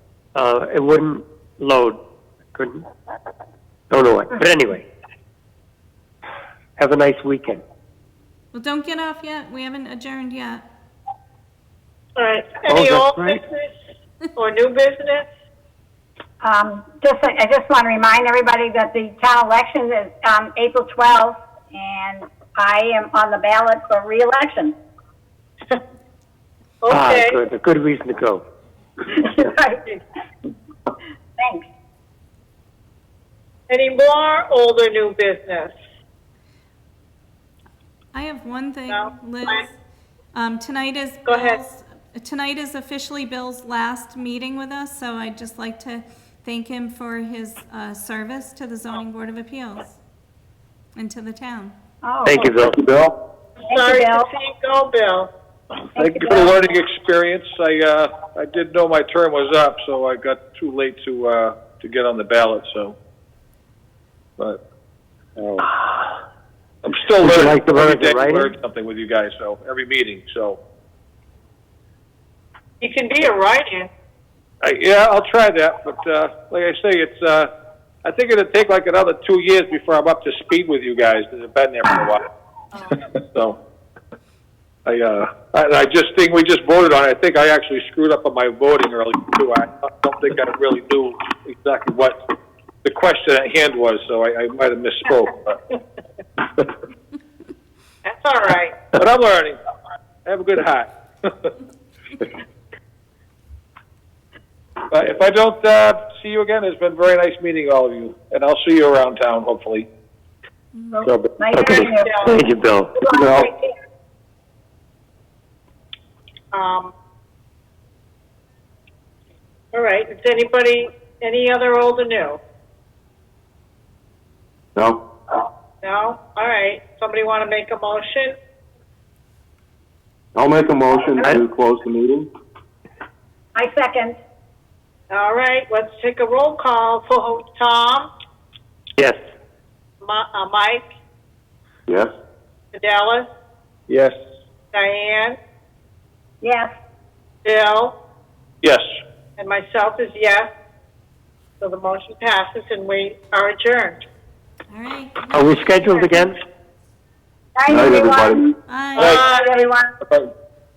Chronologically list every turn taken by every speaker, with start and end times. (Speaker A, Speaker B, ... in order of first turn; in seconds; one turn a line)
Speaker A: 0.3-2.0
Speaker A: 2.5-2.8
Speaker A: 3.9-4.9
Speaker A: 6.8-7.6
Speaker B: 8.5-10.7
Speaker C: 12.2-13.7
Speaker A: 12.7-13.4
Speaker C: 14.3-15.3
Speaker D: 16.4-24.8
Speaker C: 26.8-27.4
Speaker A: 26.9-28.4
Speaker D: 29.1-29.9
Speaker D: 31.4-31.7
Speaker C: 33.7-35.7
Speaker B: 38.1-39.7
Speaker C: 38.9-39.6
Speaker B: 40.3-50.0
Speaker C: 41.2-41.6
Speaker B: 51.0-51.7
Speaker D: 52.0-52.5
Speaker A: 52.2-52.8
Speaker E: 52.7-53.1
Speaker D: 53.7-54.3
Speaker C: 53.7-55.3
Speaker F: 55.9-63.0
Speaker D: 55.9-56.6
Speaker F: 65.4-65.7
Speaker F: 66.8-70.6
Speaker A: 67.2-68.5
Speaker C: 72.8-73.9
Speaker F: 74.6-77.5
Speaker F: 78.0-82.2
Speaker F: 83.3-83.6
Speaker F: 84.8-92.2
Speaker F: 92.8-95.7
Speaker C: 98.0-98.9
Speaker F: 98.9-99.6
Speaker F: 100.2-101.5
Speaker F: 104.9-109.9
Speaker B: 110.7-111.1
Speaker D: 110.9-112.3
Speaker A: 111.5-113.0
Speaker C: 112.0-112.4
Speaker D: 113.0-113.7
Speaker E: 113.2-113.5
Speaker C: 116.5-116.9
Speaker C: 119.7-122.4
Speaker E: 124.8-125.0
Speaker C: 125.8-128.3
Speaker E: 130.3-132.3
Speaker D: 133.5-134.2
Speaker C: 135.1-138.1
Speaker C: 140.0-140.9
Speaker C: 142.7-143.3
Speaker F: 143.9-144.1
Speaker C: 144.7-145.4
Speaker D: 146.4-146.7
Speaker C: 147.4-147.9
Speaker C: 149.4-150.5
Speaker C: 151.6-154.0
Speaker B: 154.7-155.9
Speaker A: 155.3-156.4
Speaker D: 157.6-160.0
Speaker E: 157.7-158.4
Speaker B: 158.7-159.1
Speaker C: 158.9-159.6